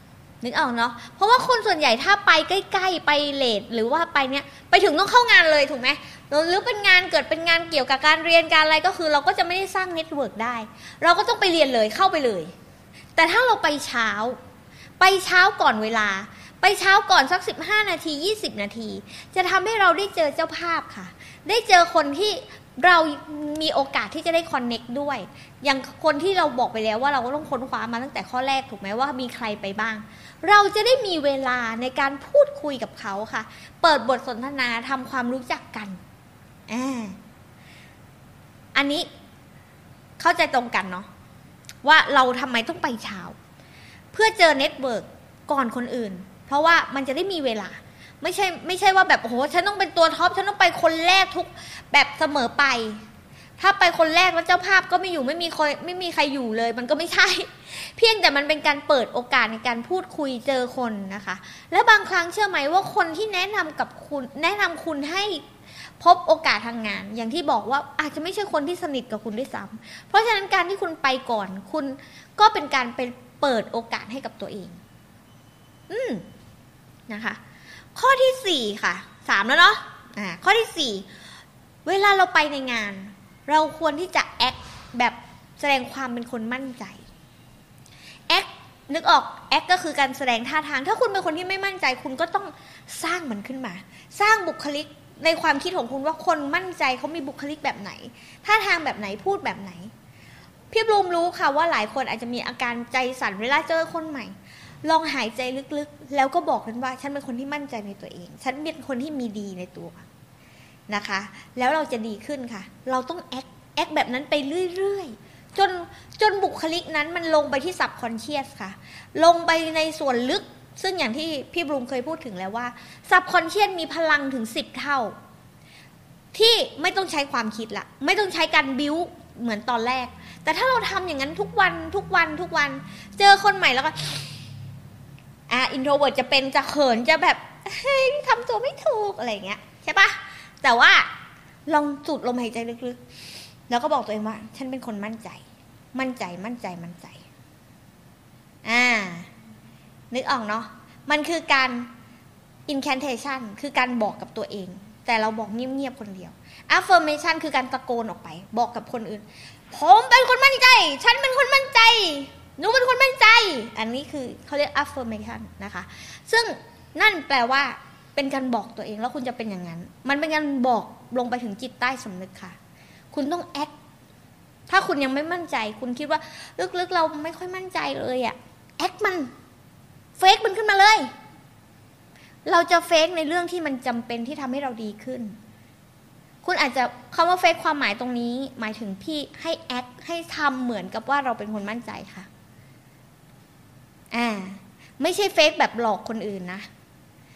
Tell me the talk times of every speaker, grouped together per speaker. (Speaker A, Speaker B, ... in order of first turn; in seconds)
Speaker A: 0.4-12.5, 13.2-14.4, 15.0-36.0, 36.7-37.2, 38.7-39.1, 40.2-41.1, 41.8-43.4, 44.1-53.0, 53.6-65.4, 66.0-74.8, 75.9-76.2, 77.1-77.4, 77.9-81.1, 81.8-87.0, 88.3-99.9, 100.7-104.3, 104.8-110.0, 110.9-125.1, 126.3-134.3, 135.5-141.1, 141.7-143.0, 143.7-145.4, 145.9-147.2, 148.6-149.3, 150.1-151.9, 152.7-172.6, 173.1-173.7, 174.7-179.3, 180.2-181.1, 182.4-185.3, 186.4-192.3, 194.1-196.7